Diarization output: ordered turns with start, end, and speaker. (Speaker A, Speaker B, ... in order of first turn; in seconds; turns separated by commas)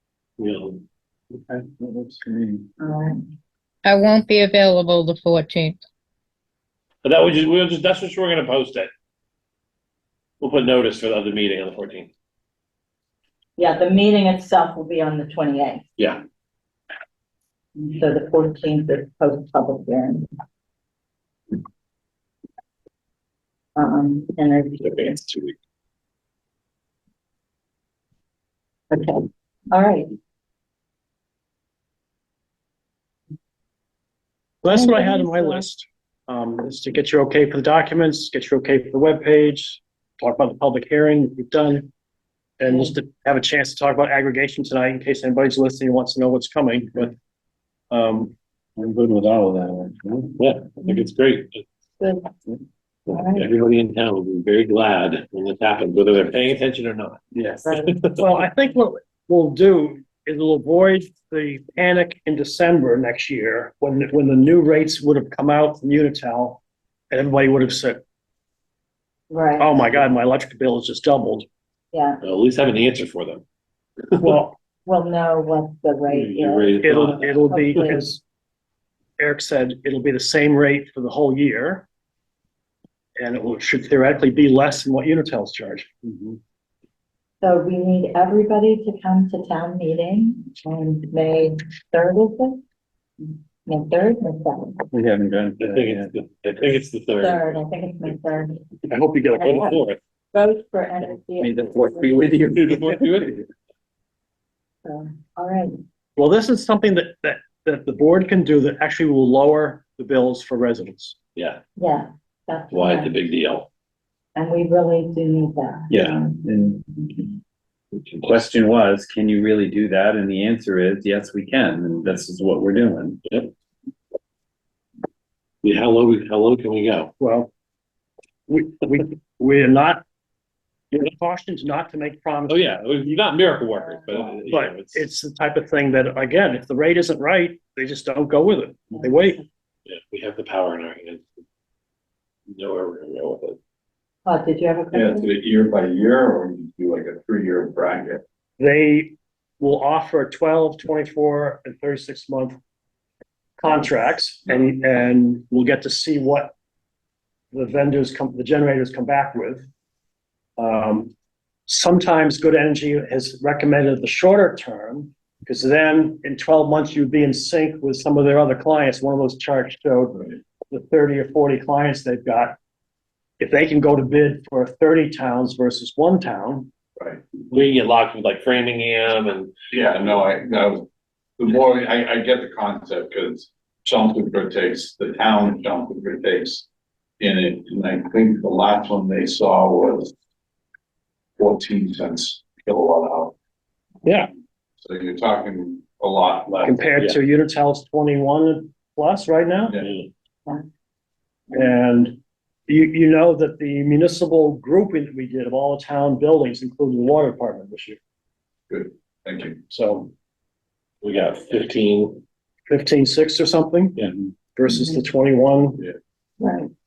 Speaker A: 0.4-0.8, Speaker B: 1.7-2.6, Speaker C: 2.8-3.2, Speaker D: 3.8-5.8, Speaker A: 7.0-8.9, Speaker A: 10.4-12.1, Speaker C: 13.6-15.9, Speaker C: 17.8-20.3, Speaker C: 23.8-25.2, Speaker A: 24.8-25.5, Speaker C: 28.9-30.1, Speaker E: 34.6-41.9, Speaker C: 34.7-35.6, Speaker E: 42.6-47.1, Speaker C: 42.7-43.0, Speaker E: 47.9-48.3, Speaker B: 48.8-50.4, Speaker A: 50.4-51.6, Speaker C: 52.0-52.3, Speaker A: 53.1-57.2, Speaker C: 53.1-53.5, Speaker B: 57.3-57.6, Speaker C: 57.6-58.0, Speaker A: 57.8-58.2, Speaker E: 58.2-68.0, Speaker C: 69.3-70.0, Speaker E: 69.6-71.5, Speaker C: 71.9-72.2, Speaker A: 72.2-73.4, Speaker A: 74.1-74.4, Speaker E: 74.2-74.5, Speaker C: 74.8-78.1, Speaker A: 76.1-77.4, Speaker E: 76.8-78.2, Speaker E: 79.2-81.8, Speaker E: 83.2-86.0, Speaker C: 87.4-92.6, Speaker C: 93.2-94.8, Speaker B: 94.9-96.1, Speaker A: 95.6-98.1, Speaker C: 97.2-98.7, Speaker E: 98.9-99.8, Speaker C: 99.3-99.8, Speaker A: 99.4-100.0, Speaker C: 100.3-102.3, Speaker B: 101.4-103.5, Speaker A: 102.5-103.4, Speaker C: 104.8-105.8, Speaker E: 106.2-111.2, Speaker A: 111.3-111.6, Speaker C: 111.8-113.2, Speaker A: 112.7-113.7, Speaker C: 114.3-116.0, Speaker B: 115.9-117.1, Speaker B: 118.1-123.2, Speaker A: 123.2-123.5, Speaker A: 125.6-127.1, Speaker E: 127.2-127.5, Speaker E: 128.5-130.0, Speaker E: 130.9-132.8, Speaker A: 132.5-135.0, Speaker C: 133.8-134.4, Speaker E: 134.5-139.4, Speaker C: 138.9-139.4, Speaker A: 139.8-141.3, Speaker A: 142.5-143.6, Speaker C: 144.2-145.3, Speaker F: 144.9-148.2, Speaker E: 148.6-152.6, Speaker E: 153.6-156.5, Speaker E: 157.5-159.7, Speaker E: 160.6-161.1, Speaker E: 161.7-172.6, Speaker E: 173.4-176.7, Speaker F: 177.0-177.2, Speaker A: 177.5-179.5, Speaker F: 179.7-180.9, Speaker F: 181.4-186.7, Speaker F: 187.2-190.1, Speaker F: 191.4-193.3, Speaker E: 194.0-194.3, Speaker F: 194.8-196.8, Speaker E: 196.6-199.8, Speaker A: 199.8-200.1, Speaker E: 201.5-202.2, Speaker E: 202.7-208.0, Speaker F: 208.7-209.6, Speaker E: 209.7-210.1, Speaker A: 211.0-212.2, Speaker E: 212.7-215.9, Speaker C: 214.7-215.0, Speaker C: 216.4-216.7